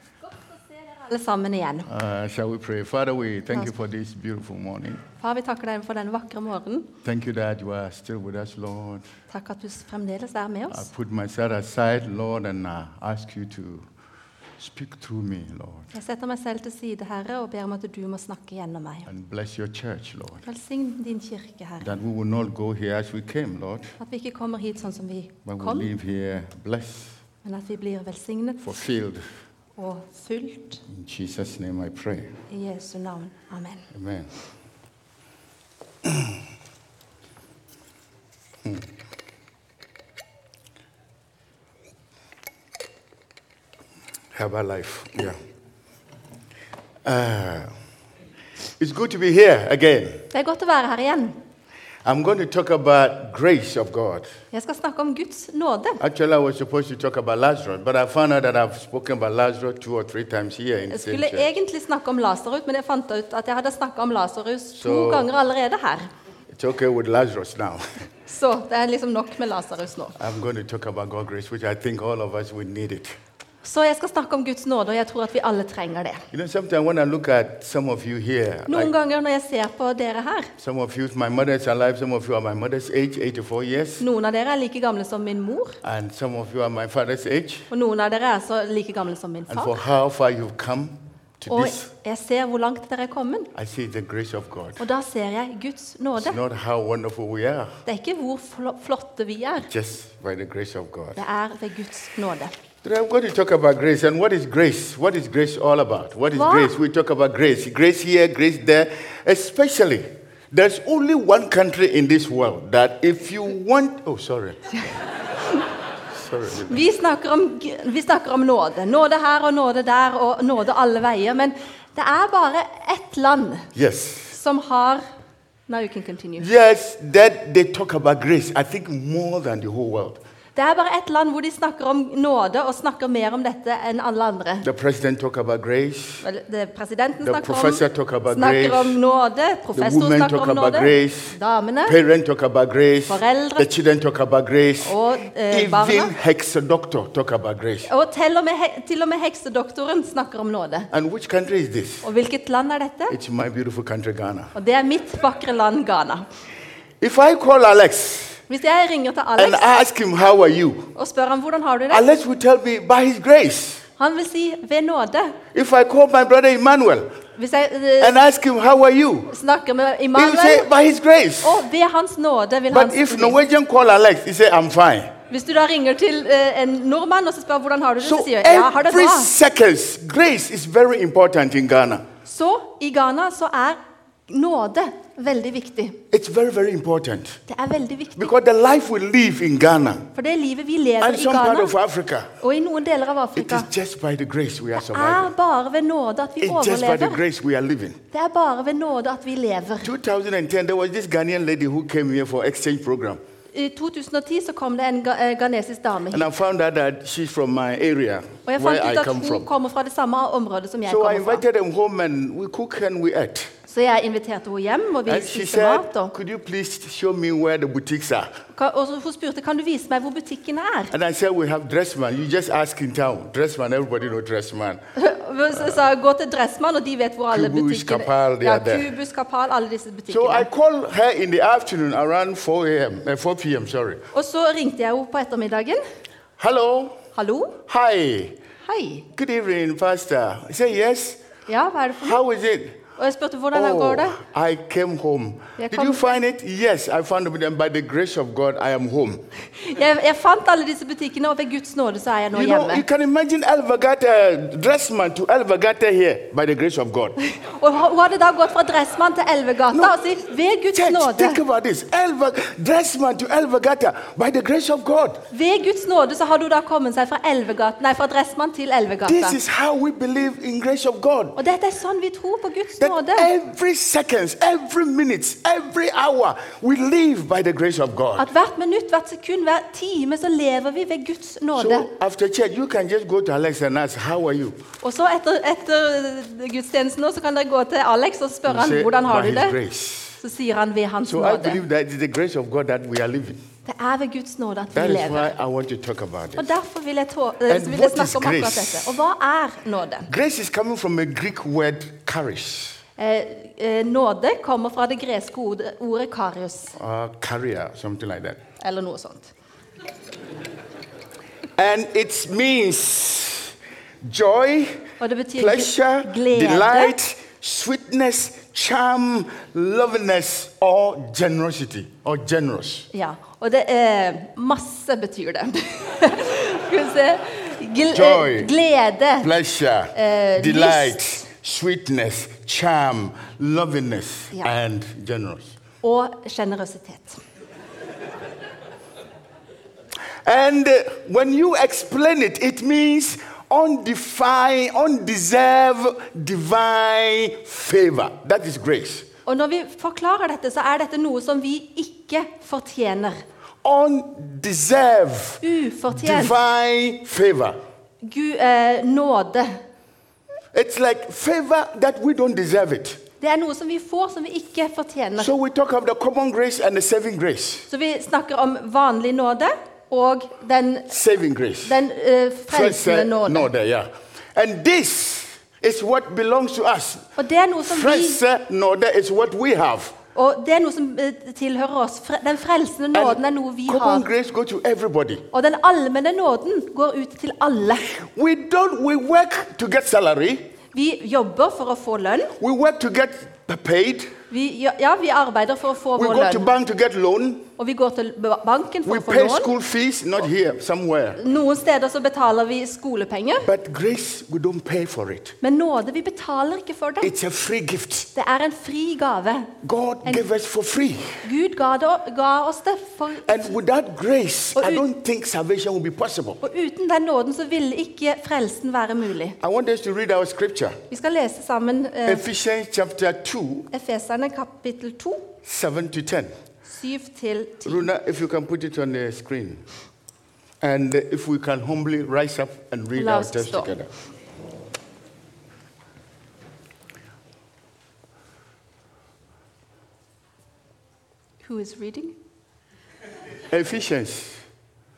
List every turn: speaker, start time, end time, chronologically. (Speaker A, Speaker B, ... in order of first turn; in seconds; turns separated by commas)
Speaker A: 0.2-1.9, Speaker B: 1.9-5.0, Speaker A: 5.2-6.9, Speaker B: 7.0-9.1, Speaker A: 9.3-10.9, Speaker B: 10.7-13.9, Speaker B: 14.6-15.9, Speaker A: 15.9-19.1, Speaker B: 19.1-20.5, Speaker A: 20.5-21.9, Speaker B: 21.8-24.0, Speaker A: 24.0-25.9, Speaker B: 25.4-27.2, Speaker A: 27.4-28.8, Speaker B: 28.6-29.3, Speaker A: 29.8-30.8, Speaker B: 30.9-32.4, Speaker A: 32.5-33.9, Speaker B: 33.9-34.3, Speaker B: 36.0-36.4, Speaker B: 44.3-45.4, Speaker B: 47.0-47.7, Speaker B: 48.8-50.3, Speaker A: 50.3-51.4, Speaker B: 52.0-54.3, Speaker A: 54.5-56.0, Speaker B: 56.0-61.5, Speaker A: 60.9-66.1, Speaker B: 64.8-65.3, Speaker B: 66.5-67.8, Speaker A: 68.3-70.2, Speaker B: 70.2-73.2, Speaker A: 73.6-76.2, Speaker B: 76.3-78.9, Speaker A: 78.7-80.5, Speaker B: 80.6-84.0, Speaker A: 84.0-85.8, Speaker B: 85.8-87.7, Speaker A: 87.7-89.8, Speaker B: 89.5-91.9, Speaker A: 91.5-93.5, Speaker B: 93.5-94.8, Speaker A: 94.8-96.4, Speaker B: 96.2-97.8, Speaker A: 97.9-99.7, Speaker B: 99.7-101.2, Speaker A: 101.2-102.5, Speaker B: 102.8-114.6, Speaker A: 106.3-106.8, Speaker B: 116.1-116.8, Speaker A: 116.6-123.7, Speaker B: 123.8-124.4, Speaker A: 124.3-125.0, Speaker A: 125.7-126.5, Speaker B: 126.4-130.2, Speaker A: 130.6-134.7, Speaker B: 134.6-136.2, Speaker A: 136.2-142.0, Speaker B: 137.2-139.0, Speaker B: 139.7-141.3, Speaker B: 141.9-144.9, Speaker A: 143.1-143.7, Speaker A: 144.8-146.1, Speaker B: 145.5-147.9, Speaker A: 147.9-150.9, Speaker B: 150.9-152.1, Speaker A: 152.0-153.2, Speaker B: 153.1-154.5, Speaker A: 154.6-156.2, Speaker B: 157.0-158.4, Speaker A: 158.5-159.6, Speaker B: 159.4-160.9, Speaker A: 160.9-162.1, Speaker B: 161.9-163.8, Speaker A: 164.0-165.4, Speaker B: 165.5-167.1, Speaker A: 167.3-168.2, Speaker B: 168.0-169.3, Speaker A: 169.3-170.7, Speaker B: 170.2-171.6, Speaker A: 171.4-173.4, Speaker B: 172.7-175.1, Speaker A: 175.3-179.3, Speaker B: 178.0-182.1, Speaker A: 182.2-186.0, Speaker B: 186.1-187.4, Speaker A: 187.5-188.3, Speaker B: 188.2-190.1, Speaker A: 190.2-191.8, Speaker B: 191.0-192.3, Speaker A: 192.4-193.7, Speaker B: 193.3-195.3, Speaker A: 194.8-197.2, Speaker B: 196.4-198.0, Speaker A: 198.1-199.9, Speaker B: 199.8-203.2, Speaker A: 203.5-206.3, Speaker B: 206.1-209.5, Speaker A: 208.5-211.4, Speaker B: 210.9-213.5, Speaker A: 213.7-216.1, Speaker B: 215.1-218.3, Speaker A: 218.6-220.9, Speaker B: 220.9-224.8, Speaker A: 225.0-230.5, Speaker B: 227.3-228.9, Speaker B: 230.1-234.0, Speaker A: 234.1-235.8, Speaker B: 236.4-237.0, Speaker A: 237.2-237.6, Speaker B: 237.7-238.4, Speaker A: 238.6-239.1, Speaker B: 239.1-241.2, Speaker A: 241.5-242.2, Speaker B: 242.0-242.8, Speaker A: 243.0-244.2, Speaker B: 243.5-249.2, Speaker A: 245.6-246.0, Speaker A: 249.6-252.8, Speaker B: 252.3-257.2, Speaker A: 257.3-261.4, Speaker B: 259.7-260.0, Speaker B: 260.7-265.2, Speaker A: 265.3-269.4, Speaker B: 269.1-271.4, Speaker A: 271.4-273.3, Speaker B: 272.8-278.3, Speaker A: 278.2-281.9, Speaker B: 281.6-284.6, Speaker A: 284.8-289.6, Speaker B: 288.5-290.2, Speaker A: 290.2-291.6, Speaker B: 291.0-293.4, Speaker A: 293.6-295.3, Speaker B: 294.7-296.5, Speaker A: 296.4-300.1, Speaker B: 297.5-299.0, Speaker B: 300.1-302.8, Speaker A: 303.0-306.8, Speaker B: 306.8-308.4, Speaker A: 308.6-309.3, Speaker B: 311.6-322.9, Speaker A: 315.0-317.0, Speaker A: 322.9-329.3, Speaker B: 327.9-328.5, Speaker B: 329.2-335.6, Speaker A: 329.9-331.1, Speaker A: 335.8-337.2, Speaker B: 340.2-349.1, Speaker A: 349.3-353.2, Speaker B: 353.6-357.6, Speaker A: 355.4-356.4, Speaker A: 358.0-359.6, Speaker B: 360.5-363.0, Speaker A: 363.2-365.3, Speaker B: 365.2-367.7, Speaker A: 367.7-370.9, Speaker B: 370.9-371.8, Speaker A: 371.6-373.5, Speaker B: 372.5-377.1, Speaker A: 377.2-378.2, Speaker B: 377.6-380.0, Speaker A: 380.1-384.1, Speaker B: 382.9-385.2, Speaker A: 385.3-387.9, Speaker B: 387.9-390.5, Speaker A: 390.7-392.3, Speaker B: 392.4-394.1, Speaker A: 394.3-396.5, Speaker B: 396.0-397.5, Speaker A: 397.6-399.5, Speaker B: 398.9-401.2, Speaker A: 401.2-403.5, Speaker B: 403.4-405.4, Speaker A: 405.4-407.1, Speaker B: 407.0-408.1, Speaker A: 408.1-409.5, Speaker B: 409.6-411.2, Speaker A: 411.2-413.5, Speaker B: 413.2-416.4, Speaker A: 414.6-414.8, Speaker A: 416.4-419.4, Speaker B: 419.4-420.8, Speaker A: 420.9-422.3, Speaker B: 422.1-423.7, Speaker A: 423.7-425.3, Speaker B: 425.4-426.3, Speaker A: 426.7-427.9, Speaker B: 427.6-429.6, Speaker B: 430.6-433.9, Speaker A: 433.0-433.7, Speaker A: 441.4-442.2, Speaker B: 443.5-444.4